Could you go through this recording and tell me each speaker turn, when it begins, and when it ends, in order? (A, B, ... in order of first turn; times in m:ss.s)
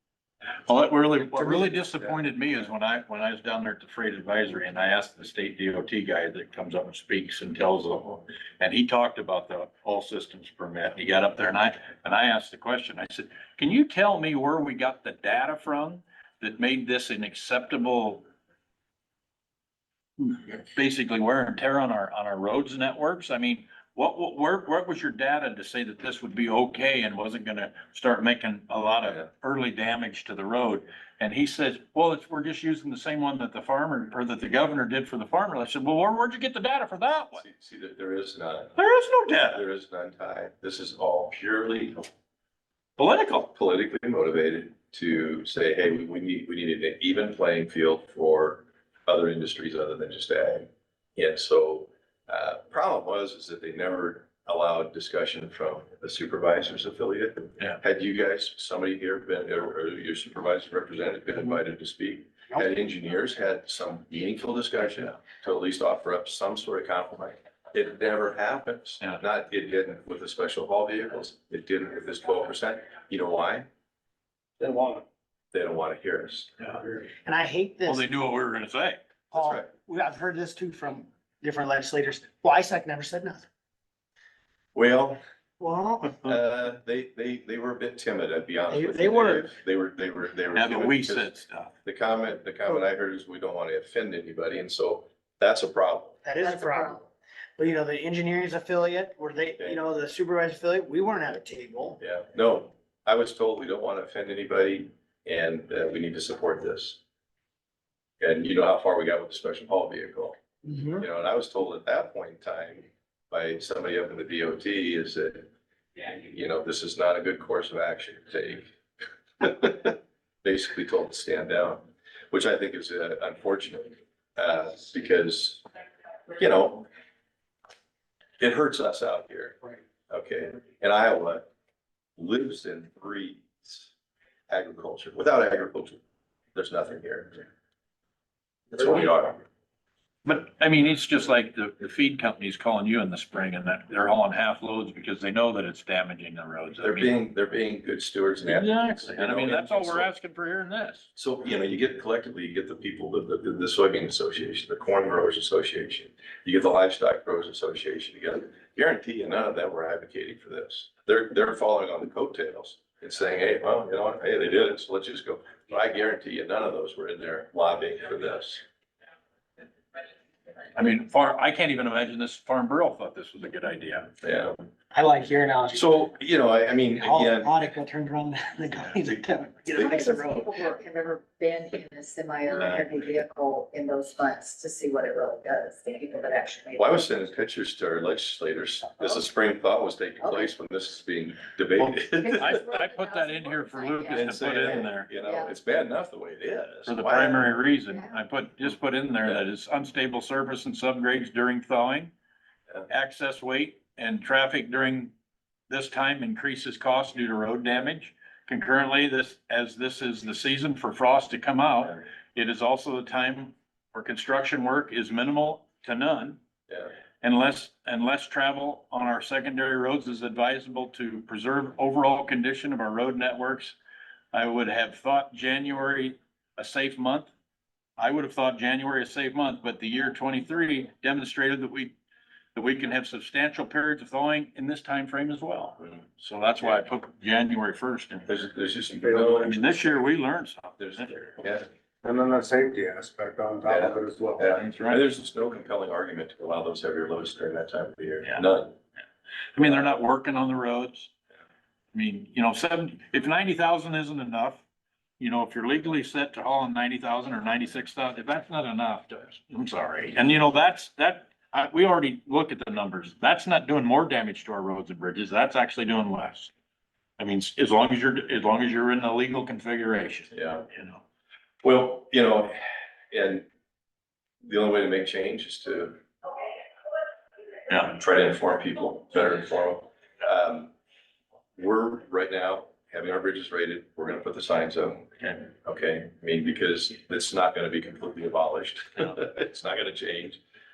0:00.7-0:18.2 A
0:20.2-0:37.4 A
0:37.3-0:38.8 B
0:38.7-0:39.6 A
0:39.4-0:42.1 B
0:43.0-0:43.5 A
0:43.5-1:13.7 B
1:15.5-1:16.8 B
1:17.2-1:18.0 C
1:17.8-1:19.0 A
1:19.3-1:23.5 C
1:19.3-1:19.7 B
1:24.7-1:25.2 B
1:25.6-1:26.3 C
1:26.1-1:36.2 B
1:28.7-1:29.5 C
1:30.5-1:31.7 A
1:36.2-1:37.0 C
1:36.4-1:37.0 D
1:37.6-1:42.0 C
1:42.0-1:47.0 B
1:48.2-1:50.4 B
1:50.6-1:51.0 C
1:51.0-1:58.7 B
1:59.4-2:05.6 B
2:06.4-2:06.9 B
2:08.4-2:11.5 B
2:12.2-2:13.9 B
2:14.5-2:16.0 B
2:16.5-2:17.4 B
2:18.7-2:19.4 B
2:20.2-2:27.2 A
2:26.8-2:30.1 B
2:28.4-2:31.1 A
2:31.2-2:48.6 B
2:50.7-2:54.1 A
2:54.2-2:54.7 B
2:54.9-2:55.9 C
2:55.7-2:57.5 B
2:56.9-3:00.7 C
2:59.7-3:00.7 B
2:59.8-3:07.1 D
3:02.5-3:02.8 B
3:06.8-3:12.6 B
3:10.2-3:10.5 D
3:12.2-3:15.5 D
3:12.3-3:15.1 A
3:14.1-3:17.5 B
3:16.8-3:22.1 A
3:17.9-3:18.2 D
3:22.9-3:25.1 A
3:25.7-3:36.4 A
3:37.2-3:43.7 A
3:44.3-3:47.3 A
3:48.0-3:51.9 A
3:52.5-3:58.4 A
3:58.3-3:59.9 B
3:59.0-3:59.4 E
3:59.2-4:01.2 A
4:00.8-4:01.6 B
4:02.0-4:04.5 E
4:03.7-4:08.8 B
4:04.5-4:05.0 A
4:09.5-4:11.1 A
4:11.9-4:14.6 A
4:15.2-4:26.5 A
4:27.2-4:31.0 A
4:30.3-4:30.7 B
4:31.6-4:33.5 B
4:34.4-4:36.0 B
4:37.7-4:40.7 B
4:41.6-4:50.4 B